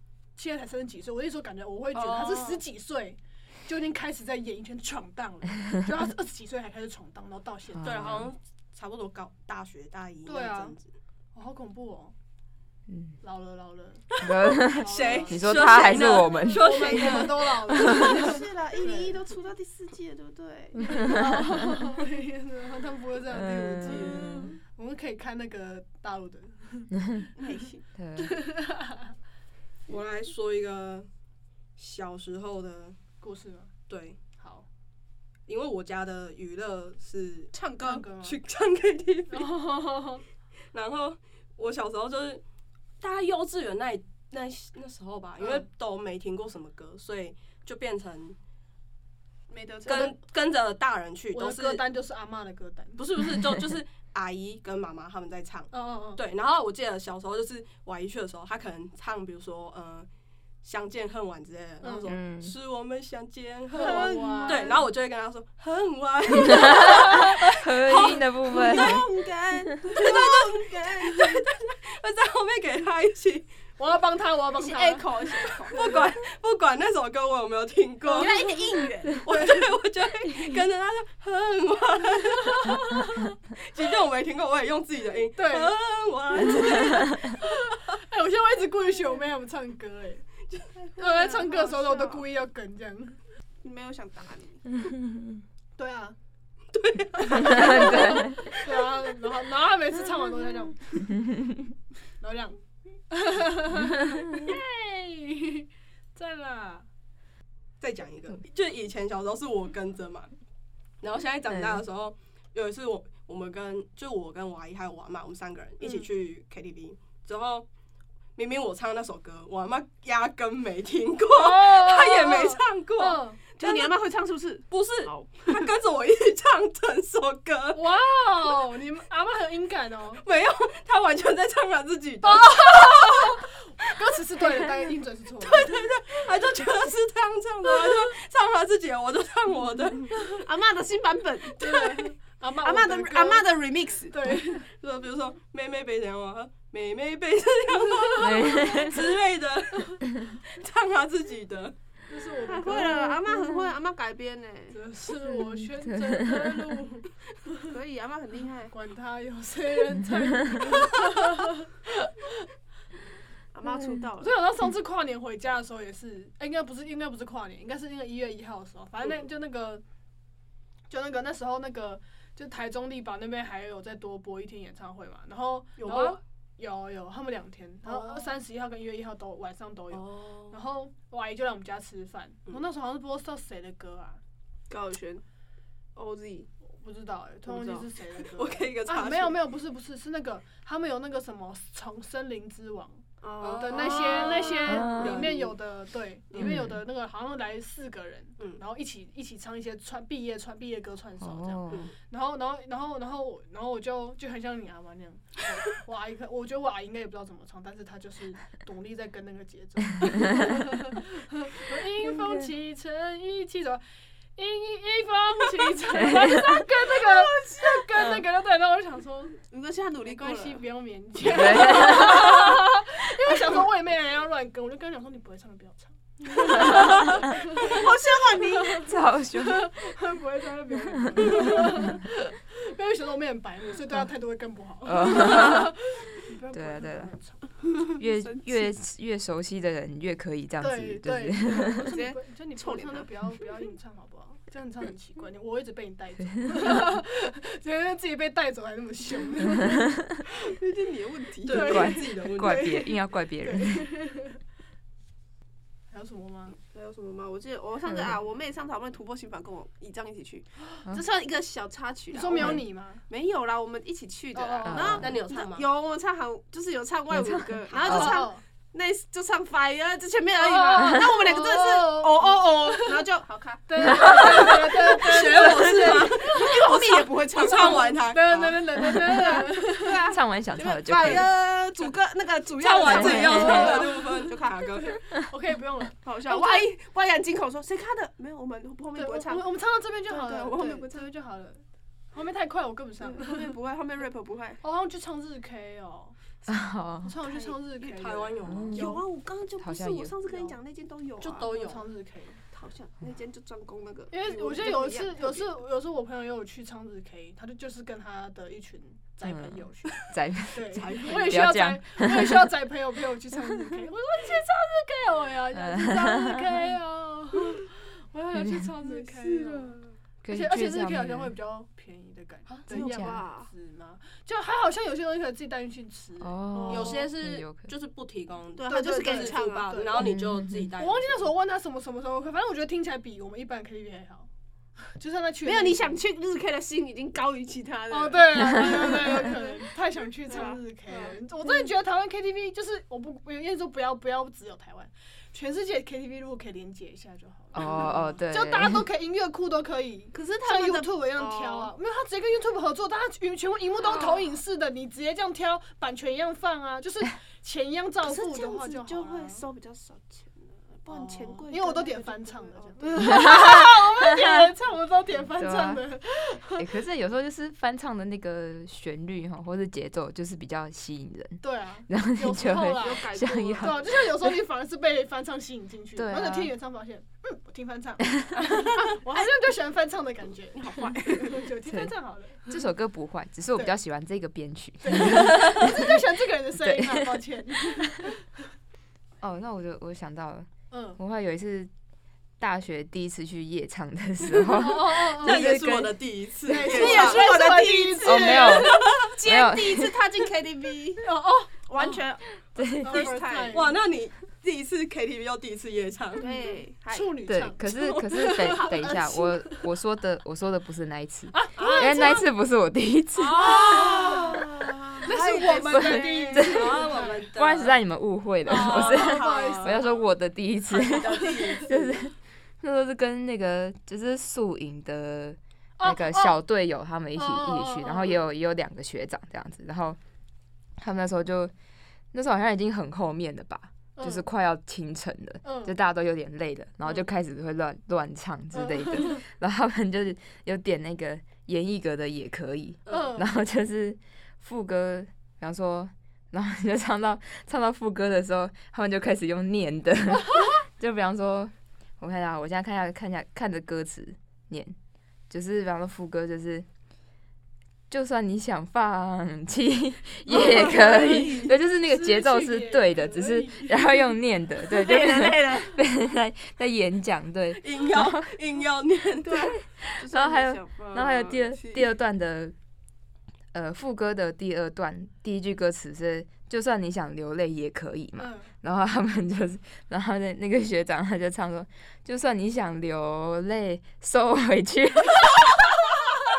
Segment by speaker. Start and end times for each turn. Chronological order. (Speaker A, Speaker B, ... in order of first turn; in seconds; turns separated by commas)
Speaker A: 0.4-8.3, Speaker B: 1.9-2.6, Speaker C: 7.7-8.3, Speaker D: 7.8-10.9, Speaker A: 10.2-10.8, Speaker A: 11.3-12.1, Speaker C: 12.9-13.2, Speaker A: 13.2-19.2, Speaker C: 14.2-18.1, Speaker D: 14.8-17.7, Speaker B: 17.7-21.2, Speaker A: 20.9-27.3, Speaker C: 21.0-21.4, Speaker C: 23.3-24.5, Speaker D: 23.9-24.4, Speaker B: 23.9-24.6, Speaker B: 27.4-27.8, Speaker C: 28.0-28.4, Speaker A: 28.2-29.1, Speaker D: 29.9-31.1, Speaker D: 31.8-33.0, Speaker A: 33.2-33.7, Speaker D: 33.9-34.2, Speaker A: 34.4-34.7, Speaker D: 35.5-37.5, Speaker B: 37.5-38.1, Speaker A: 37.8-38.4, Speaker D: 38.2-39.5, Speaker A: 39.3-40.2, Speaker D: 40.7-42.4, Speaker D: 43.0-48.4, Speaker B: 49.5-50.2, Speaker D: 49.9-51.8, Speaker A: 49.9-50.1, Speaker A: 51.3-53.0, Speaker D: 53.0-60.1, Speaker A: 55.7-56.2, Speaker D: 60.6-68.2, Speaker A: 61.8-62.1, Speaker C: 62.1-62.5, Speaker A: 63.7-64.8, Speaker B: 63.8-64.8, Speaker C: 66.5-69.1, Speaker B: 67.9-71.4, Speaker D: 69.9-73.5, Speaker A: 73.8-76.0, Speaker B: 74.6-75.8, Speaker D: 75.7-78.5, Speaker A: 78.0-78.4, Speaker B: 78.1-79.2, Speaker D: 79.1-87.4, Speaker A: 79.3-79.7, Speaker A: 82.4-83.3, Speaker A: 85.4-85.7, Speaker A: 86.4-90.2, Speaker B: 90.8-92.2, Speaker A: 91.0-93.2, Speaker B: 93.6-94.7, Speaker C: 94.9-95.4, Speaker A: 95.8-96.2, Speaker D: 96.7-98.7, Speaker A: 97.2-101.2, Speaker C: 97.4-98.5, Speaker A: 102.2-106.9, Speaker D: 107.8-110.3, Speaker D: 111.0-117.7, Speaker A: 115.8-116.1, Speaker D: 118.4-124.0, Speaker A: 121.3-123.4, Speaker B: 123.6-125.7, Speaker D: 124.7-127.8, Speaker A: 127.7-130.2, Speaker D: 130.2-133.4, Speaker A: 132.2-135.8, Speaker D: 135.4-140.4, Speaker B: 140.3-142.1, Speaker A: 141.6-143.5, Speaker B: 142.6-144.2, Speaker A: 144.1-144.7, Speaker D: 144.6-151.8, Speaker C: 148.2-149.1, Speaker A: 148.4-148.8, Speaker A: 152.1-153.3, Speaker B: 152.4-154.8, Speaker A: 154.7-157.7, Speaker C: 155.3-156.8, Speaker B: 157.6-158.7, Speaker A: 158.7-162.5, Speaker C: 160.4-160.6, Speaker B: 163.5-164.3, Speaker A: 164.2-169.8, Speaker A: 170.9-184.2, Speaker D: 175.8-176.2, Speaker B: 177.9-178.2, Speaker D: 179.9-180.6, Speaker B: 184.7-185.2, Speaker B: 186.0-186.5, Speaker A: 186.7-213.8, Speaker B: 187.5-187.9, Speaker D: 188.3-189.4, Speaker B: 193.2-195.5, Speaker D: 193.4-195.5, Speaker C: 194.7-195.3, Speaker C: 196.4-196.8, Speaker C: 201.2-201.9, Speaker C: 212.2-212.5, Speaker A: 214.4-219.4, Speaker C: 216.0-216.6, Speaker B: 216.7-217.9, Speaker B: 219.5-220.6, Speaker A: 220.1-237.4, Speaker C: 221.2-222.5, Speaker B: 226.4-228.9, Speaker C: 228.8-229.7, Speaker C: 231.2-231.9, Speaker C: 234.8-235.7, Speaker C: 236.5-237.1, Speaker B: 237.9-238.7, Speaker C: 238.0-241.8, Speaker A: 240.6-249.9, Speaker B: 241.6-243.1, Speaker C: 246.4-246.7, Speaker B: 250.5-251.8, Speaker D: 251.5-252.8, Speaker A: 251.5-254.4, Speaker C: 251.6-253.9, Speaker A: 255.9-256.6, Speaker B: 256.7-284.8, Speaker C: 257.9-258.2, Speaker A: 262.1-263.0, Speaker A: 264.3-265.1, Speaker C: 264.6-265.1, Speaker D: 265.0-265.7, Speaker C: 267.1-268.2, Speaker A: 267.8-268.4, Speaker A: 270.4-273.0, Speaker A: 273.7-280.0, Speaker D: 274.4-278.6, Speaker C: 280.1-281.3, Speaker D: 282.6-285.0, Speaker A: 282.9-284.3, Speaker C: 282.9-283.8, Speaker A: 284.8-286.7, Speaker B: 286.0-289.5, Speaker A: 289.0-293.5, Speaker B: 290.1-291.1, Speaker B: 293.0-294.6, Speaker A: 294.6-298.4, Speaker C: 296.5-297.1, Speaker B: 297.2-297.6, Speaker D: 297.8-299.0, Speaker C: 298.4-299.0, Speaker B: 298.7-301.8, Speaker C: 299.6-300.1, Speaker A: 301.2-302.4, Speaker D: 301.3-301.8, Speaker B: 302.5-305.5, Speaker A: 304.1-319.8, Speaker C: 309.2-312.5, Speaker D: 310.7-311.5, Speaker C: 315.5-316.5, Speaker C: 318.4-318.7, Speaker B: 318.8-320.0, Speaker C: 320.2-321.3, Speaker A: 320.3-327.0, Speaker B: 322.7-323.5, Speaker C: 322.7-323.2, Speaker C: 326.2-327.7, Speaker B: 326.6-327.2, Speaker D: 326.7-331.3, Speaker B: 328.6-329.8, Speaker A: 328.7-330.1, Speaker C: 330.0-330.7, Speaker A: 330.8-334.3, Speaker A: 334.9-336.0, Speaker B: 335.4-339.7, Speaker A: 337.9-359.4, Speaker B: 340.3-341.7, Speaker C: 347.5-348.9, Speaker B: 350.1-351.7, Speaker B: 353.9-354.2, Speaker B: 358.0-363.2, Speaker A: 360.9-366.7, Speaker C: 363.2-363.7, Speaker C: 365.4-365.8, Speaker C: 366.6-373.9, Speaker A: 371.4-382.6, Speaker B: 372.7-373.9, Speaker C: 375.9-376.5, Speaker B: 380.6-381.5, Speaker C: 381.7-381.9, Speaker C: 382.5-386.0, Speaker A: 384.8-388.3, Speaker C: 386.6-387.2, Speaker C: 389.2-391.7, Speaker A: 390.7-391.0, Speaker C: 392.4-396.0, Speaker A: 394.4-395.5, Speaker D: 395.2-397.3, Speaker A: 396.5-399.0, Speaker B: 396.6-401.1, Speaker C: 398.0-400.0, Speaker A: 401.0-402.0, Speaker B: 401.7-403.6, Speaker C: 402.6-403.1, Speaker A: 402.8-403.8, Speaker D: 403.5-406.3, Speaker B: 406.2-407.2, Speaker A: 406.2-409.6, Speaker C: 407.3-413.9, Speaker B: 408.2-409.4, Speaker A: 411.3-412.3, Speaker A: 413.2-414.5, Speaker B: 413.5-417.0, Speaker D: 413.7-414.3, Speaker A: 415.0-417.2, Speaker D: 415.1-415.6, Speaker C: 415.6-416.7, Speaker D: 416.5-417.8, Speaker C: 417.4-430.0, Speaker A: 418.5-419.8, Speaker D: 418.5-419.8, Speaker B: 418.5-419.7, Speaker D: 420.7-421.9, Speaker B: 420.9-421.8, Speaker A: 425.8-426.4, Speaker A: 427.1-428.2, Speaker C: 430.8-431.5, Speaker C: 432.1-454.8, Speaker A: 434.0-434.3, Speaker A: 435.4-435.8, Speaker A: 438.5-439.2, Speaker D: 442.9-443.1, Speaker A: 442.9-443.3, Speaker C: 455.3-456.7, Speaker C: 457.9-468.4, Speaker D: 460.3-461.5, Speaker A: 460.3-464.2, Speaker B: 464.6-465.8, Speaker D: 467.6-469.5, Speaker B: 469.2-471.9, Speaker C: 469.6-472.6, Speaker C: 473.5-485.8, Speaker A: 478.2-478.5